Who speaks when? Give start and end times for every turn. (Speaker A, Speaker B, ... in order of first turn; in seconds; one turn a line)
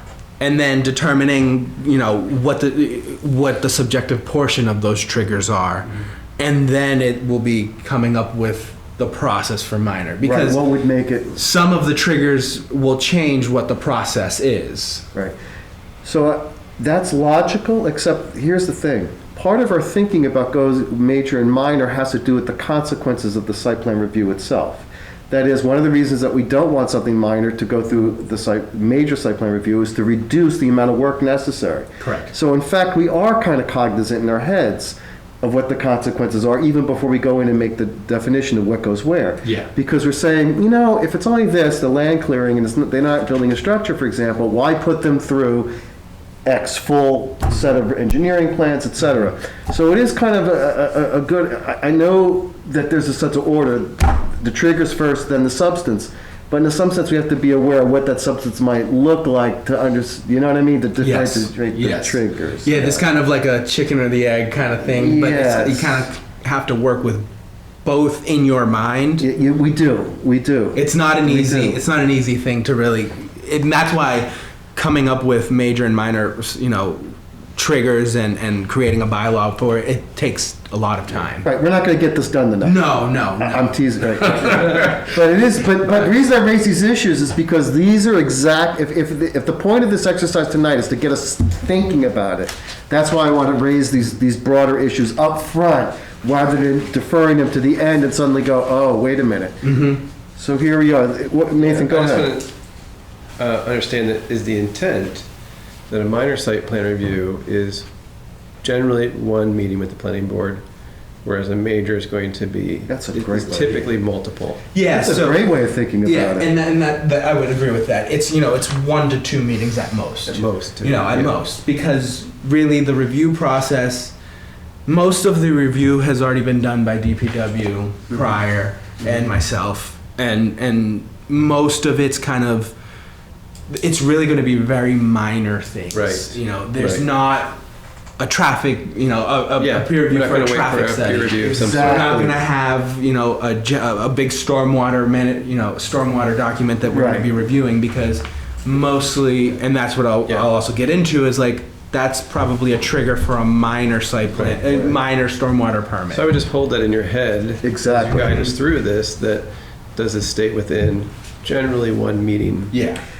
Speaker A: 0.4-10.6
Speaker B: 10.2-11.4
Speaker A: 11.3-15.0
Speaker B: 16.0-45.7
Speaker A: 32.0-32.3
Speaker A: 39.4-39.7
Speaker B: 46.4-63.1
Speaker A: 61.0-67.3
Speaker B: 64.8-66.1
Speaker A: 67.8-69.2
Speaker B: 69.2-71.8
Speaker A: 70.7-81.5
Speaker B: 81.4-102.4
Speaker A: 82.6-84.8
Speaker A: 99.6-100.0
Speaker C: 101.6-102.5
Speaker C: 103.4-105.2
Speaker C: 105.9-107.9
Speaker C: 108.6-110.6
Speaker C: 111.2-114.6
Speaker B: 112.9-113.9
Speaker A: 114.7-115.5
Speaker B: 114.9-116.5
Speaker A: 116.0-124.1
Speaker C: 120.3-121.4
Speaker A: 124.8-132.7
Speaker A: 133.7-137.6
Speaker C: 135.9-137.1
Speaker A: 138.2-156.3
Speaker C: 139.6-142.4
Speaker B: 141.5-142.3
Speaker B: 146.9-147.3
Speaker B: 154.6-154.9
Speaker C: 156.1-162.7
Speaker B: 157.6-158.6
Speaker A: 162.7-163.0